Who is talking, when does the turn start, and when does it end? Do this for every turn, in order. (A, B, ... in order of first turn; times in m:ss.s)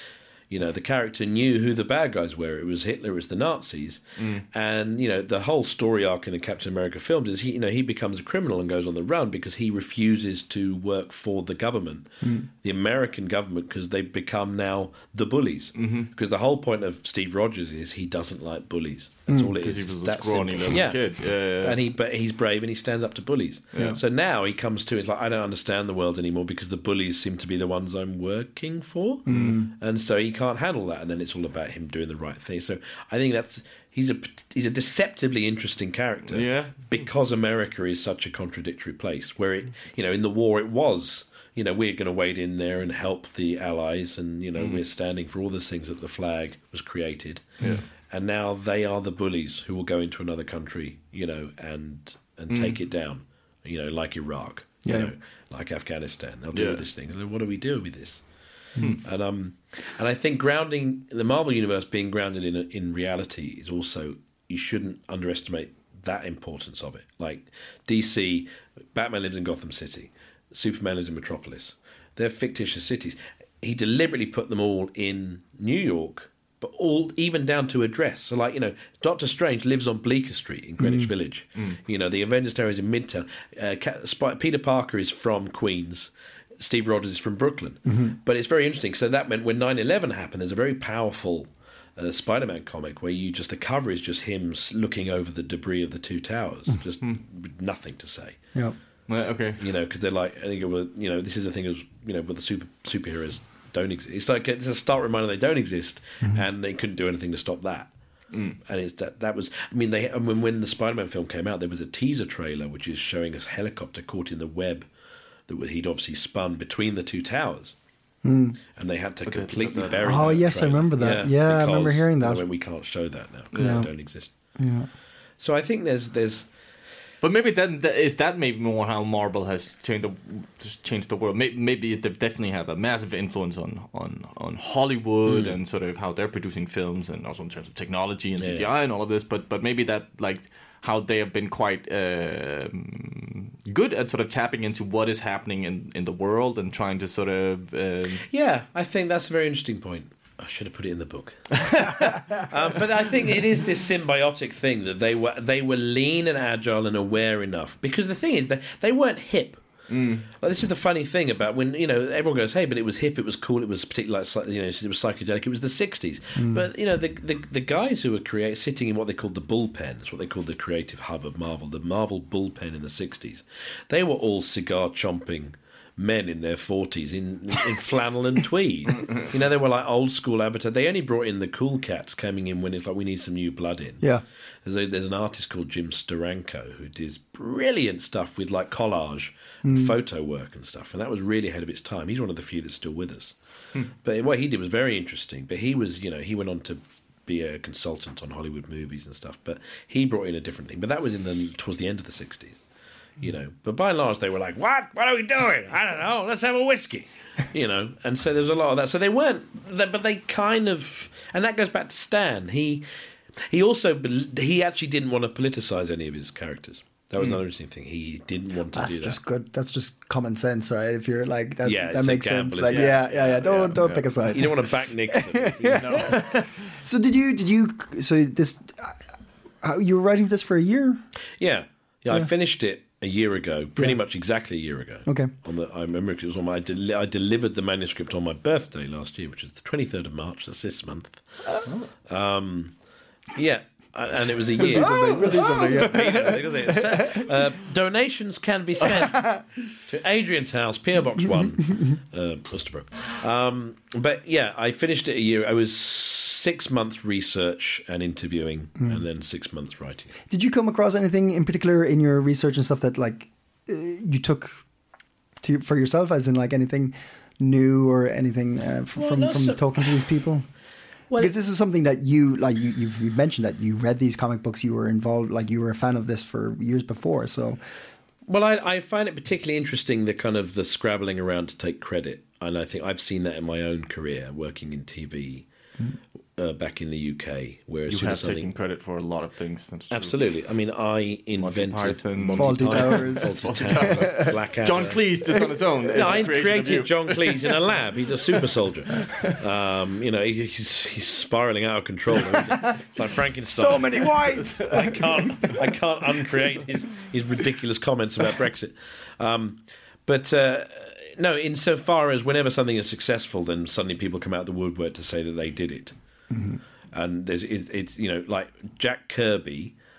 0:00.5-0:58.2 A
0:04.2-0:04.4 B
0:15.8-0:16.1 B
0:19.3-0:19.5 C
0:19.6-0:21.8 B
0:29.3-0:29.7 C
0:36.3-0:37.0 B
0:52.5-0:52.8 B
0:54.8-0:55.1 C
0:56.5-0:56.8 B
0:59.0-1:38.4 A
1:20.8-1:21.1 C
1:27.8-1:28.2 C
1:39.1-1:39.6 B
1:39.6-1:47.9 A
1:48.3-1:48.6 B
1:48.6-1:54.9 A
1:55.5-1:57.7 A
1:58.2-1:58.6 C
1:58.8-2:04.3 A
1:59.2-2:00.4 B
2:00.0-2:02.4 C
2:03.5-2:03.8 B
2:03.6-2:03.9 C
2:04.6-2:04.9 C
2:05.4-2:06.4 A
2:07.2-2:28.2 B
2:15.3-2:15.5 A
2:18.4-2:18.6 A
2:28.2-2:39.6 A
2:31.6-2:32.2 B
2:39.9-2:40.3 B
2:40.2-3:04.1 A
2:46.4-2:46.6 C
3:04.6-3:13.3 A
3:09.6-3:10.0 C
3:14.0-3:22.6 A
3:23.2-3:32.8 A
3:33.4-3:39.2 A
3:38.7-3:49.1 C
3:41.6-3:46.2 A
3:42.7-3:44.5 B
3:45.6-3:46.5 B
3:49.6-3:51.0 C
3:51.4-4:01.2 A
3:55.0-3:55.3 C
4:02.1-4:02.7 A
4:03.3-4:20.2 A
4:04.6-4:07.3 C
4:05.0-4:06.2 B
4:20.3-4:24.6 C
4:25.4-4:30.5 C
4:28.9-4:30.1 A
4:31.2-4:37.6 C
4:38.3-4:45.4 A
4:46.4-4:48.5 A
4:47.9-4:50.2 B
4:49.9-4:55.0 A
4:51.4-4:57.5 B
4:52.3-4:54.3 C
4:55.9-5:15.9 A
4:58.9-4:59.4 B
5:03.4-5:05.7 C
5:16.3-5:16.6 C
5:16.9-5:19.7 A